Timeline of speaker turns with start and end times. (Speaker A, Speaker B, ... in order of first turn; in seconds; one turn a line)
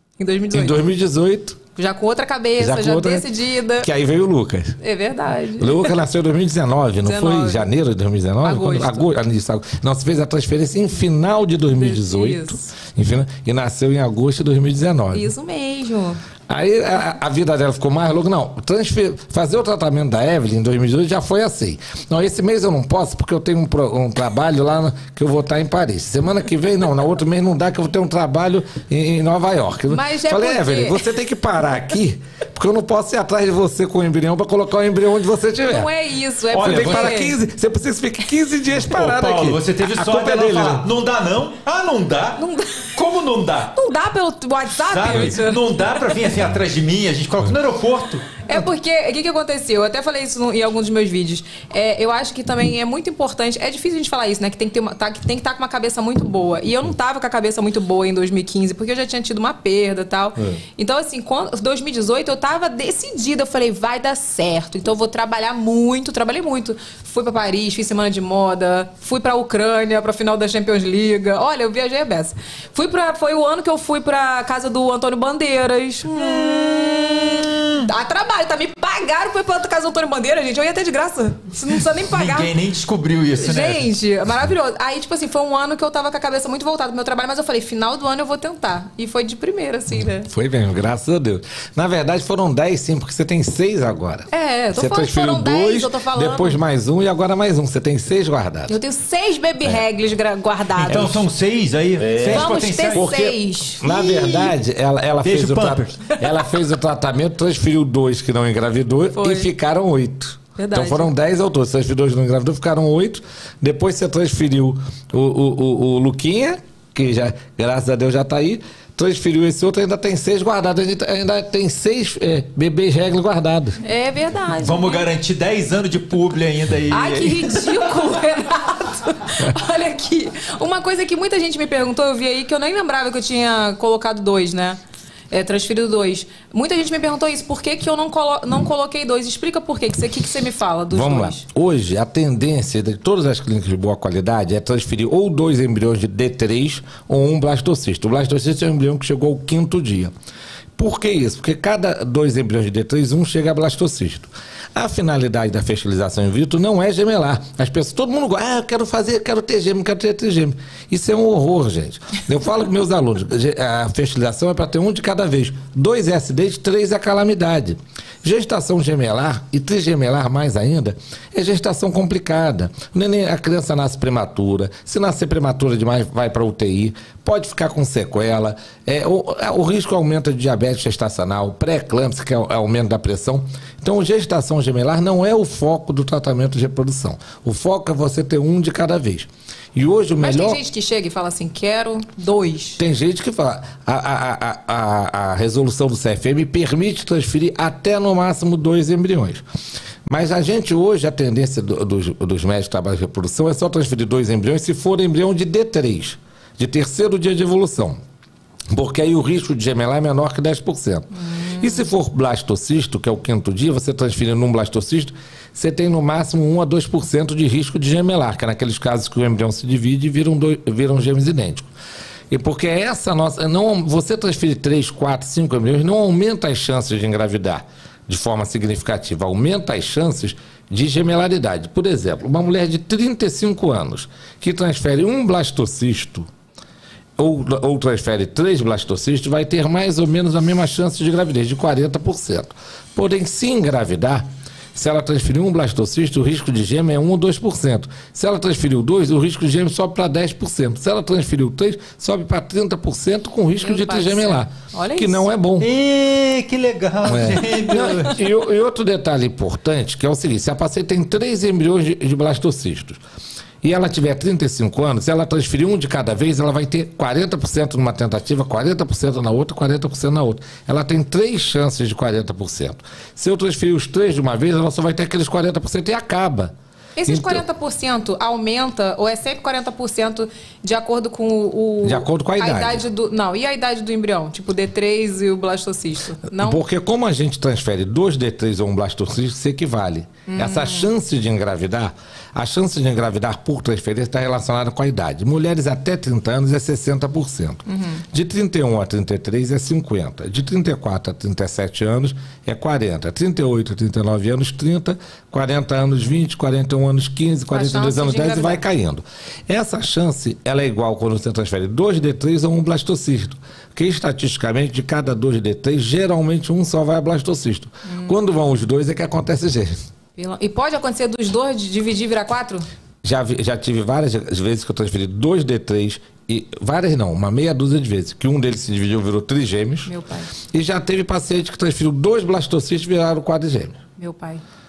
Speaker A: 0.2-0.8
Speaker B: 0.5-1.6
Speaker A: 1.7-3.9
Speaker B: 2.6-3.2
Speaker B: 3.8-4.8
Speaker A: 4.8-5.9
Speaker B: 5.6-15.3
Speaker A: 7.0-7.7
Speaker A: 8.4-9.1
Speaker A: 11.7-12.7
Speaker A: 15.1-16.2
Speaker B: 16.5-35.9
Speaker A: 29.9-31.0
Speaker A: 35.7-37.3
Speaker C: 36.5-37.2
Speaker B: 36.6-40.9
Speaker C: 38.8-42.4
Speaker A: 42.4-42.9
Speaker C: 42.9-43.7
Speaker A: 43.7-46.0
Speaker C: 44.7-48.3
Speaker A: 48.4-82.5
Speaker C: 82.1-83.9
Speaker A: 83.3-90.3
Speaker B: 90.2-98.8
Speaker A: 94.3-96.6
Speaker A: 98.7-101.2
Speaker C: 100.8-103.1
Speaker B: 102.0-123.8
Speaker A: 102.2-104.4
Speaker C: 105.2-106.0
Speaker A: 109.1-109.5
Speaker A: 110.6-111.1
Speaker A: 123.8-125.1
Speaker C: 124.6-127.7
Speaker A: 126.9-134.8
Speaker A: 135.3-141.4
Speaker B: 140.9-150.1
Speaker B: 150.8-190.6
Speaker A: 190.2-192.8
Speaker B: 192.8-199.4
Speaker B: 200.1-208.0
Speaker B: 208.7-221.7
Speaker A: 211.3-211.8
Speaker B: 222.3-236.3
Speaker B: 237.2-244.2
Speaker B: 244.8-255.7
Speaker A: 253.6-255.3
Speaker C: 255.6-258.2
Speaker B: 257.0-263.0
Speaker B: 263.6-276.5
Speaker A: 277.0-286.6
Speaker B: 277.1-277.4
Speaker B: 281.8-282.8
Speaker B: 286.3-319.7
Speaker A: 290.3-290.9
Speaker A: 297.7-298.0
Speaker A: 307.5-308.6
Speaker A: 317.9-318.2
Speaker A: 320.1-322.6
Speaker B: 323.0-329.9
Speaker A: 329.9-330.3
Speaker B: 330.5-333.8
Speaker A: 334.0-334.4